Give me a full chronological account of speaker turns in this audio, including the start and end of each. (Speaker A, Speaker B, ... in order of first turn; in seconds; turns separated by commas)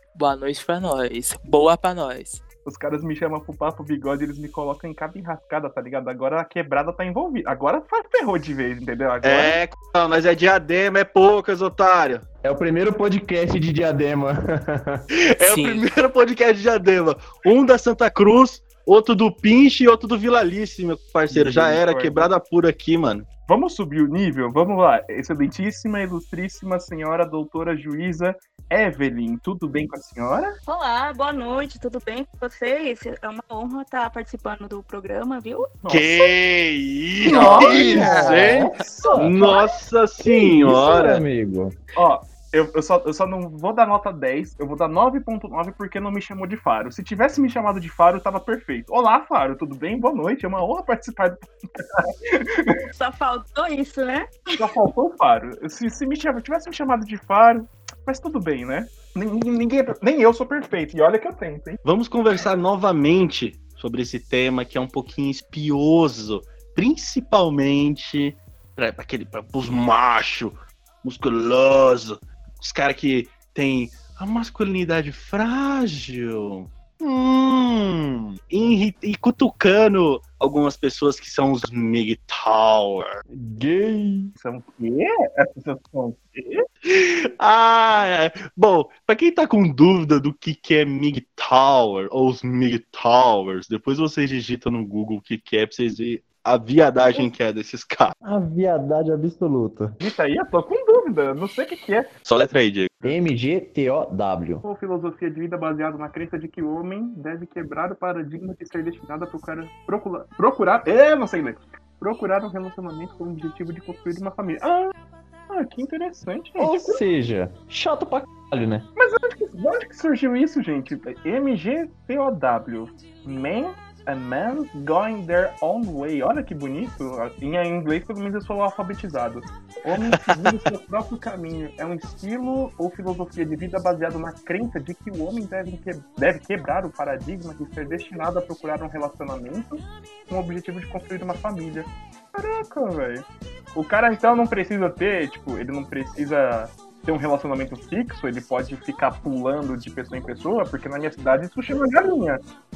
Speaker A: 0.1-2.4, Speaker B: 2.6-9.6, Speaker C: 9.2-12.2, Speaker D: 12.4-15.1, Speaker C: 15.2-23.3, Speaker A: 15.4-15.9, Speaker B: 21.3-22.3, Speaker B: 23.5-30.5, Speaker E: 30.7-35.7, Speaker B: 35.8-36.2, Speaker C: 35.9-41.2, Speaker A: 37.3-38.6, Speaker B: 37.3-38.2, Speaker D: 37.4-39.4, Speaker E: 39.0-40.5, Speaker D: 40.5-41.7, Speaker B: 42.0-52.8, Speaker E: 53.0-54.6, Speaker B: 54.6-61.8, Speaker C: 61.8-83.2, Speaker D: 83.3-84.3, Speaker B: 84.4-86.6, Speaker C: 86.8-98.1, Speaker D: 98.2-100.0, Speaker B: 100.0-102.1, Speaker C: 102.2-102.9, Speaker D: 103.0-104.6, Speaker B: 104.6-114.9, Speaker B: 115.5-117.0, Speaker D: 116.6-118.9, Speaker B: 119.0-152.4, Speaker C: 130.2-130.5